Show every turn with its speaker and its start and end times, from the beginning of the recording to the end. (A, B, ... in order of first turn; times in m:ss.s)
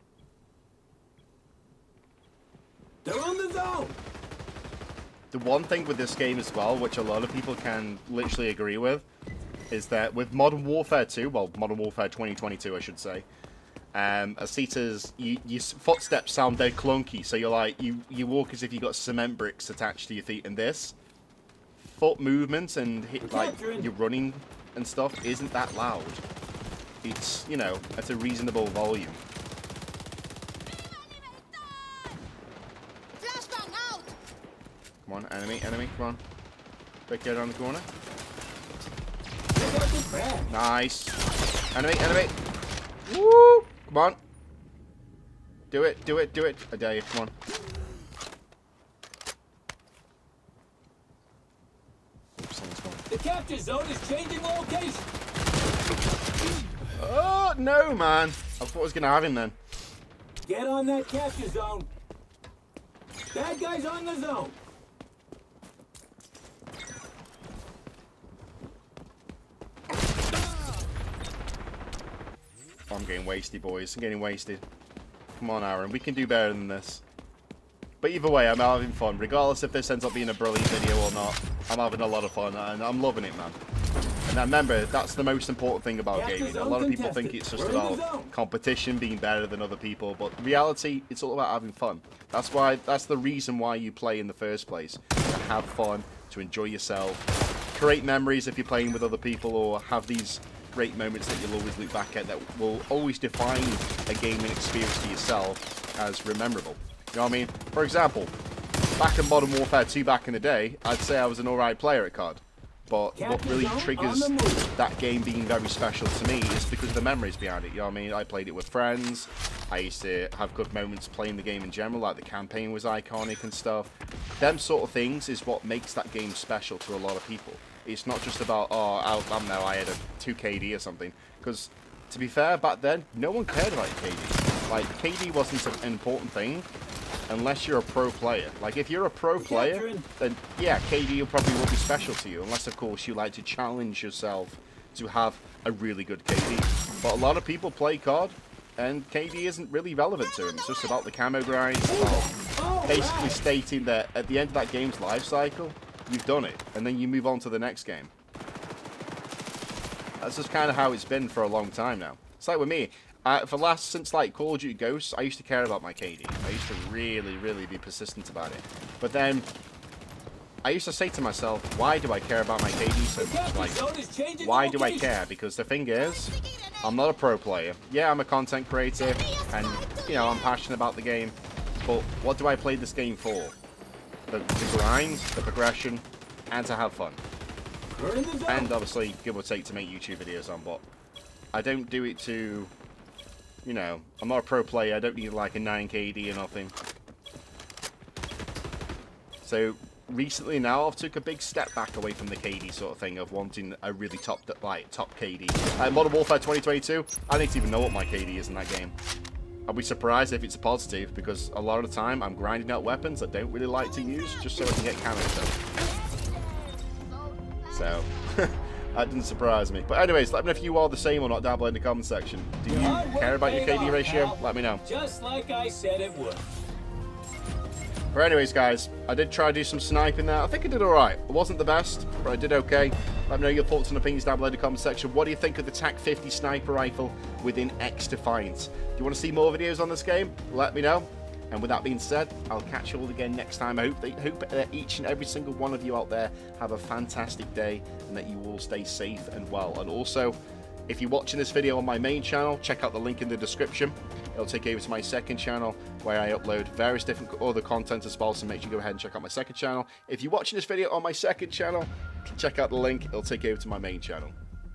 0:03.0-0:04.0 A
0:05.3-0:09.1 B
0:09.7-0:13.3 B
0:13.9-0:21.0 B
0:21.8-0:26.2 B
0:23.2-0:23.9 A
0:27.0-0:29.2 B
0:31.3-0:31.6 C
0:33.2-0:34.1 C
0:35.0-0:36.2 B
0:37.1-0:37.9 B
0:39.6-0:40.5 A
0:40.5-0:41.2 B
0:41.8-0:42.4 B
0:43.1-0:44.2 B
0:45.7-0:47.3 B
0:52.4-0:53.1 B
0:53.1-0:55.1 A
0:56.9-0:59.6 B
1:00.4-1:01.9 A
1:03.3-1:04.6 A
1:12.9-1:14.6 B
1:15.4-1:17.0 B
1:18.0-1:23.6 B
1:24.3-1:48.3 B
1:26.1-1:28.3 A
1:49.0-2:16.7 B
1:53.2-1:54.7 A
2:17.3-2:38.1 B
2:19.4-2:20.1 A
2:31.9-2:33.4 A
2:40.2-2:49.5 B
2:50.6-2:53.8 B
2:53.2-2:55.1 A
2:54.4-3:03.6 B
3:04.3-3:07.2 B
3:08.0-3:08.7 A
3:08.5-3:10.8 B
3:11.5-3:12.7 B
3:13.6-3:16.8 B
3:19.4-3:28.9 B
3:29.7-3:35.6 B
3:36.3-3:37.2 C
3:37.7-3:44.8 B
3:42.7-3:46.5 A
3:48.1-4:24.4 B